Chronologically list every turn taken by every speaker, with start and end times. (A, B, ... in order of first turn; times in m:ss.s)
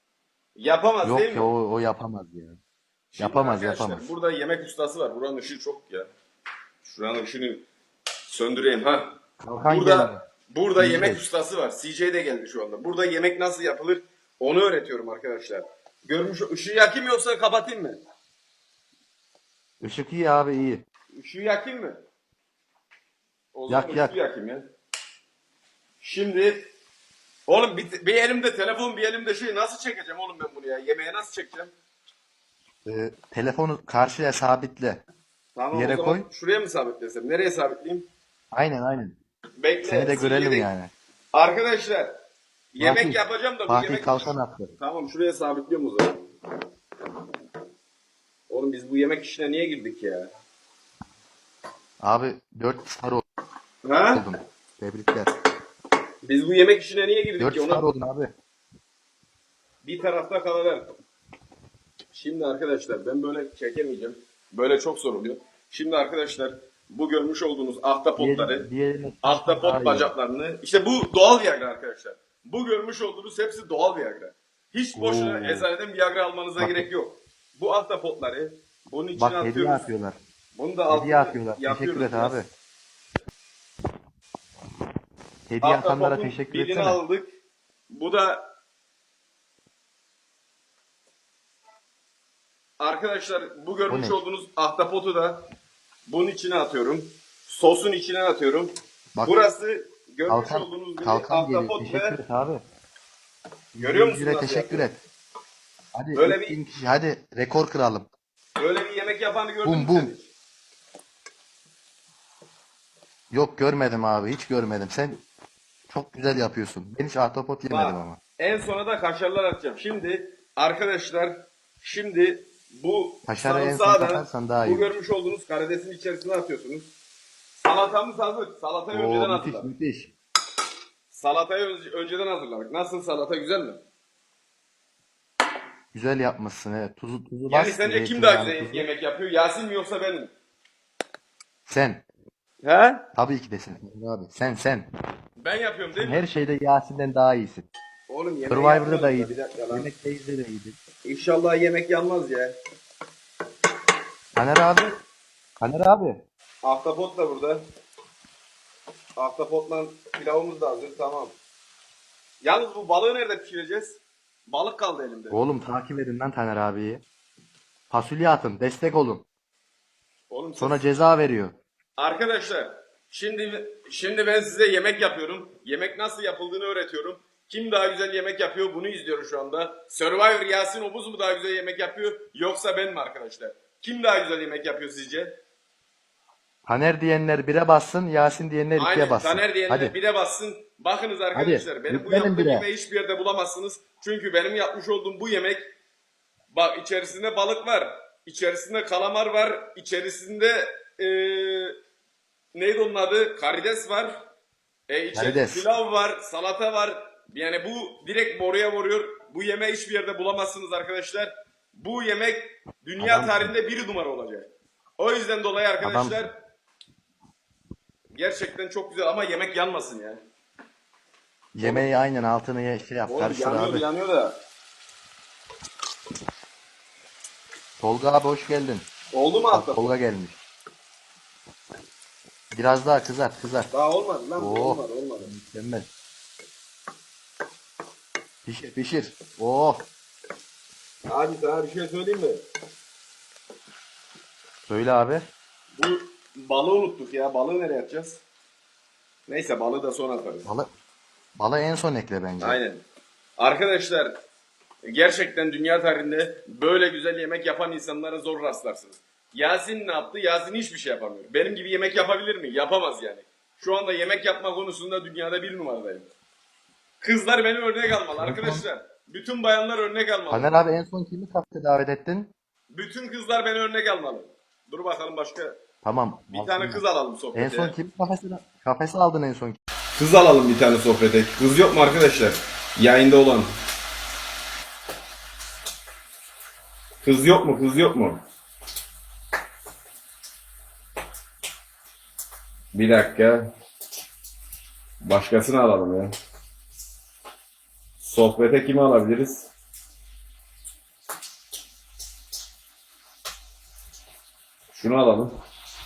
0:00.6-0:01.5 A
0:01.0-0:02.6 B
0:03.1-0:06.1 A
0:03.2-0:04.1 B
0:06.8-0:07.6 A
0:08.3-0:09.1 A
0:09.4-0:10.2 B
0:09.7-0:18.0 A
0:10.8-0:11.2 B
0:19.8-0:20.8 B
0:21.1-0:22.0 A
0:23.5-0:24.7 A
0:23.7-0:24.2 B
0:26.0-0:26.6 A
0:27.5-0:31.7 A
0:32.8-0:35.0 B
0:35.6-0:38.1 A
0:35.7-0:36.3 B
0:38.5-0:39.2 B
0:39.6-0:40.7 A
0:39.8-0:40.9 B
0:41.3-0:42.1 A
0:42.7-0:46.3 A
0:42.8-0:44.7 B
0:48.5-0:50.3 A
0:52.0-0:53.2 B
0:53.8-0:54.3 A
0:54.1-0:55.3 B
0:56.2-0:57.8 A
0:57.4-0:58.3 B
0:59.8-1:00.8 A
1:02.1-1:08.7 A
1:08.2-1:10.1 B
1:09.2-1:19.9 A
1:15.0-1:15.7 B
1:16.6-1:16.9 B
1:19.2-1:20.2 B
1:20.6-1:22.4 A
1:20.9-1:22.5 B
1:25.5-1:27.0 B
1:25.6-1:27.3 A
1:27.9-1:28.4 A
1:32.8-1:35.4 A
1:33.9-1:34.2 B
1:36.1-1:38.7 A
1:39.2-1:42.2 A
1:40.3-1:42.6 B
1:43.8-1:45.0 B
1:43.8-1:44.9 A
1:46.0-1:48.1 B
1:46.1-1:46.6 A
1:48.6-1:50.3 A
1:49.6-1:50.1 B
1:53.3-1:55.2 B
1:55.9-1:58.2 B
1:57.7-2:06.9 A
2:03.3-2:04.9 B
2:07.6-2:09.7 A
2:08.9-2:10.1 B
2:11.1-2:13.8 A
2:15.9-2:18.9 B
2:17.5-2:20.3 A
2:21.7-2:22.0 B
2:22.6-2:23.0 A
2:23.2-2:24.9 B
2:25.4-2:26.3 A
2:26.0-2:27.7 B
2:28.1-2:29.9 A
2:28.5-2:30.8 B
2:31.0-2:32.6 A
2:34.4-2:35.0 B
2:35.6-2:36.2 B
2:36.6-2:37.6 A
2:39.2-2:41.4 A
2:42.4-2:45.4 A
2:45.3-2:47.0 B
2:47.9-2:49.3 B
2:50.3-2:51.0 A
2:50.6-2:51.6 B
2:52.0-3:05.3 A
3:06.7-3:09.9 B
3:08.8-3:15.6 A
3:11.3-3:12.7 B
3:16.5-3:21.8 A
3:22.6-3:24.1 A
3:24.9-3:36.3 A
3:25.2-3:25.7 B
3:33.0-3:33.5 B
3:35.8-3:36.2 B
3:38.2-3:40.2 A
3:41.6-3:43.9 B
3:41.6-3:41.9 A
3:43.1-3:44.4 A
3:47.8-3:48.9 B
3:49.1-3:49.9 A
3:49.5-3:50.4 B
3:52.5-3:53.7 B
3:53.7-3:55.3 A
3:54.4-3:55.9 B
3:58.5-3:59.8 B
4:01.1-4:02.4 A
4:04.7-4:05.2 B
4:05.8-4:08.2 A
4:09.3-4:10.5 A
4:11.4-4:12.6 B
4:12.4-4:12.8 A
4:13.4-4:14.1 A
4:14.8-4:26.1 A
4:27.0-4:30.6 A
4:28.2-4:28.6 B
4:30.3-4:32.3 B
4:32.7-4:35.5 A
4:35.8-4:36.8 B
4:36.3-4:37.8 A
4:37.3-4:39.6 B
4:40.0-4:43.5 A
4:47.0-4:48.2 A
4:52.7-4:53.5 A
4:55.0-4:56.1 A
4:58.0-4:59.5 A
5:04.7-5:05.3 A